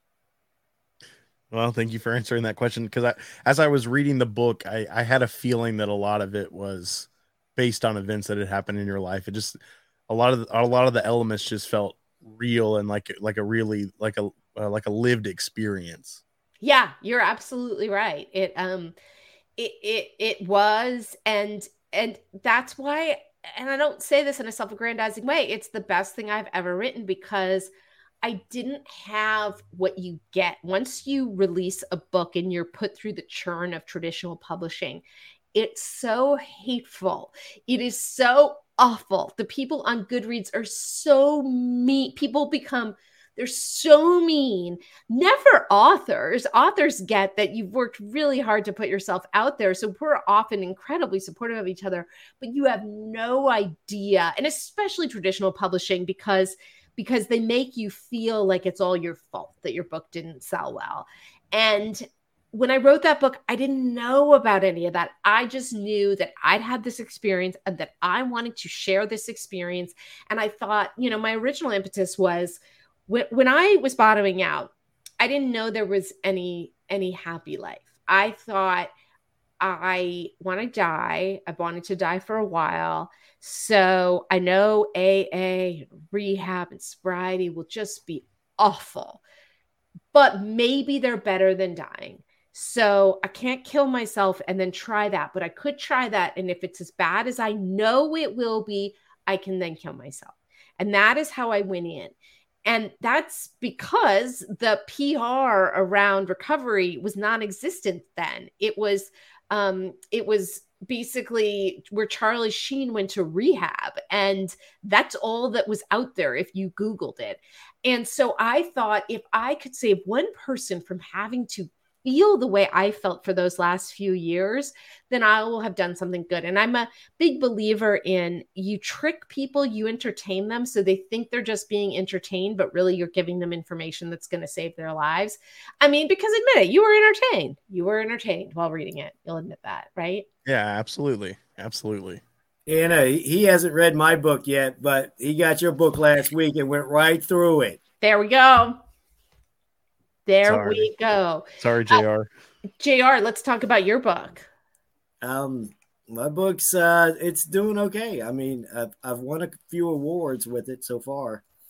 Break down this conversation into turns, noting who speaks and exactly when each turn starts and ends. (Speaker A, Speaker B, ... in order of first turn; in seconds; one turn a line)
Speaker A: 1.5-16.2
Speaker B: 16.6-18.9
Speaker B: 19.6-27.7
Speaker B: 28.2-35.0
Speaker B: 35.5-78.9
Speaker B: 79.6-89.2
Speaker B: 90.1-102.1
Speaker B: 102.7-140.3
Speaker A: 140.4-142.2
Speaker C: 142.7-147.8
Speaker B: 148.0-148.8
Speaker B: 150.3-152.0
Speaker A: 150.4-150.9
Speaker A: 151.6-152.3
Speaker B: 152.8-154.5
Speaker C: 155.2-161.4